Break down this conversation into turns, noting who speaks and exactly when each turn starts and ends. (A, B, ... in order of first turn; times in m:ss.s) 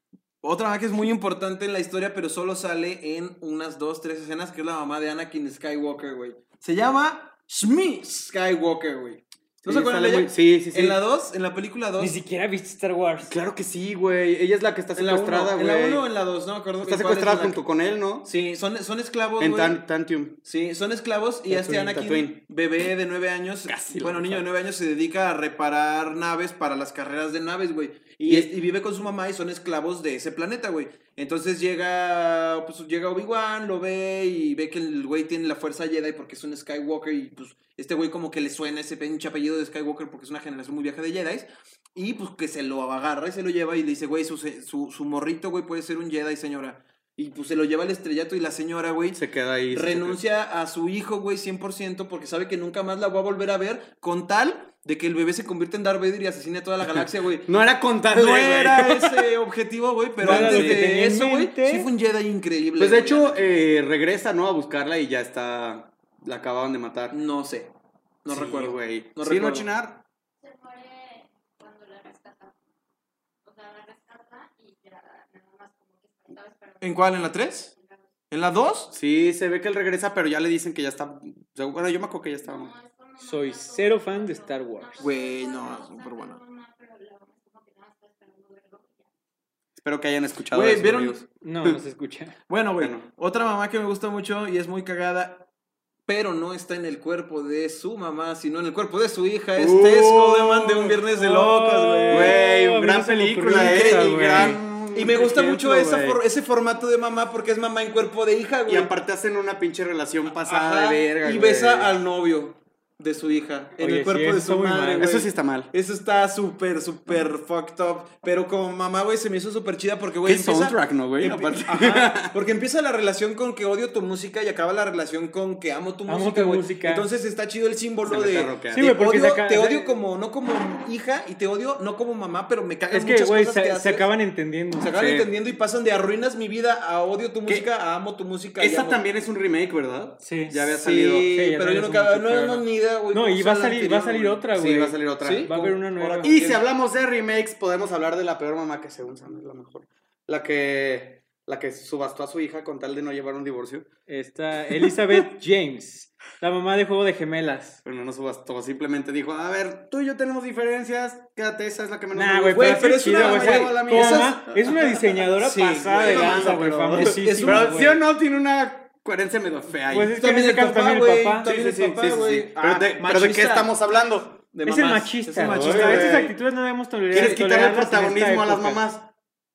0:00.4-0:12.2 A
0:09.6-0:11.0 B
0:12.0-0:13.3 C
0:13.3-0:16.0 B
0:14.9-0:17.6 A
0:16.8-0:18.3 B
0:18.2-0:19.8 A
0:19.4-0:20.4 B
0:20.4-0:57.5 A
0:21.5-0:22.4 B
0:23.7-0:24.4 B
0:49.1-0:50.2 B
0:56.8-0:59.3 B
0:58.1-1:03.5 A
1:00.2-1:00.8 B
1:00.2-1:01.9 C
1:02.8-1:07.2 B
1:07.1-1:07.7 A
1:08.2-1:09.7 A
1:08.3-1:10.0 B
1:10.4-1:12.6 D
1:13.4-1:18.1 D
1:16.8-1:17.7 A
1:18.3-1:18.9 A
1:18.9-1:22.7 B
1:22.4-1:29.1 D
1:23.2-1:25.1 C
1:25.0-1:26.4 A
1:29.8-1:31.8 B
1:30.5-1:31.2 A
1:31.4-1:32.4 C
1:32.5-1:35.4 A
1:32.8-1:33.1 B
1:36.1-1:42.4 A
1:39.6-1:41.0 B
1:41.1-1:44.6 C
1:42.1-1:46.2 B
1:43.5-1:48.9 A
1:48.7-1:51.9 B
1:50.2-2:14.1 A
1:53.8-1:55.1 C
1:55.0-1:55.7 B
2:00.2-2:02.3 B
2:06.1-2:07.0 C
2:08.0-2:08.8 B
2:08.7-2:10.0 C
2:12.9-2:14.9 C
2:14.8-2:19.0 A
2:14.9-2:15.3 B
2:18.6-2:21.3 B
2:20.2-2:20.6 C
2:20.6-2:24.4 A
2:21.3-2:26.4 C
2:24.5-2:25.5 B
2:25.2-2:26.6 A
2:26.2-2:33.9 B
2:34.1-2:37.8 C
2:37.8-2:44.8 B
2:42.1-2:48.0 C
2:42.5-2:47.9 A
2:45.8-2:50.2 B
2:49.9-2:51.6 C
2:50.2-2:53.7 A
2:51.4-2:54.4 B
2:54.5-2:56.3 A
2:54.6-2:58.8 C
2:55.4-2:56.3 B
2:57.1-2:59.1 B
2:57.1-2:57.4 A